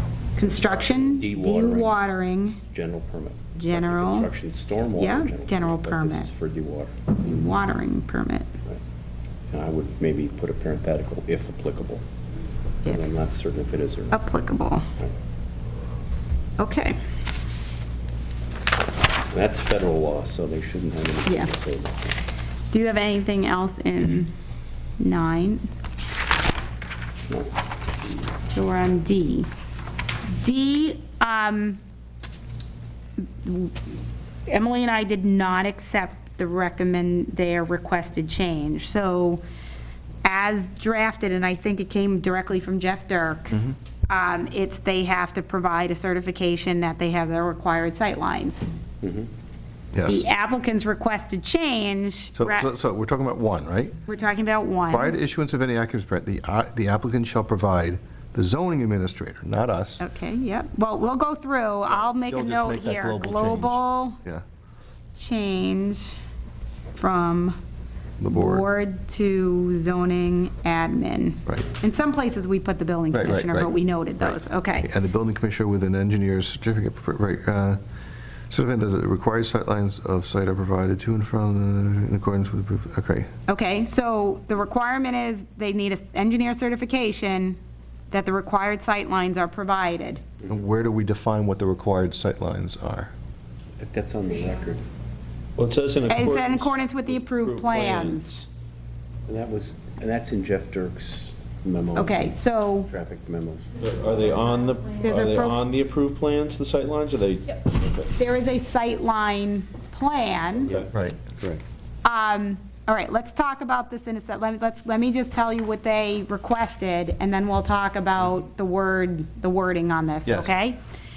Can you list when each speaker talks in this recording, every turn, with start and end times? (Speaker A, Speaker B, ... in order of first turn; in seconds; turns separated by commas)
Speaker A: 0.4-2.6, Speaker B: 0.4-2.0, Speaker B: 2.7-7.0, Speaker A: 3.5-4.3, Speaker A: 5.0-6.3, Speaker A: 7.1-8.5, Speaker B: 9.5-12.1, Speaker B: 12.8-14.2, Speaker A: 14.1-14.9, Speaker A: 16.6-17.0, Speaker B: 19.3-22.2, Speaker A: 21.3-21.5, Speaker A: 22.7-24.3, Speaker A: 25.0-25.7, Speaker B: 27.3-27.6, Speaker A: 28.4-29.5, Speaker A: 30.4-31.8, Speaker A: 33.4-33.8, Speaker A: 34.5-39.4, Speaker A: 40.2-48.6, Speaker C: 43.5-43.8, Speaker B: 49.0-49.3, Speaker C: 49.9-50.3, Speaker A: 50.0-52.7, Speaker C: 52.4-54.0, Speaker A: 54.1-55.2, Speaker C: 54.9-60.0, Speaker A: 60.0-64.2, Speaker C: 62.0-64.4, Speaker A: 65.2-66.2, Speaker A: 66.9-67.6, Speaker C: 68.2-68.7, Speaker A: 68.3-74.9, Speaker C: 73.1-77.8, Speaker C: 78.5-83.3, Speaker A: 83.5-87.6, Speaker A: 88.1-90.2, Speaker C: 90.5-93.1, Speaker B: 93.8-94.8, Speaker D: 95.6-98.3, Speaker A: 96.1-98.3, Speaker B: 99.3-102.3, Speaker A: 102.0-102.9, Speaker B: 102.9-103.7, Speaker D: 103.8-108.1, Speaker A: 105.0-105.6, Speaker A: 108.2-110.7, Speaker C: 110.9-111.2, Speaker A: 112.0-120.8, Speaker C: 120.3-120.5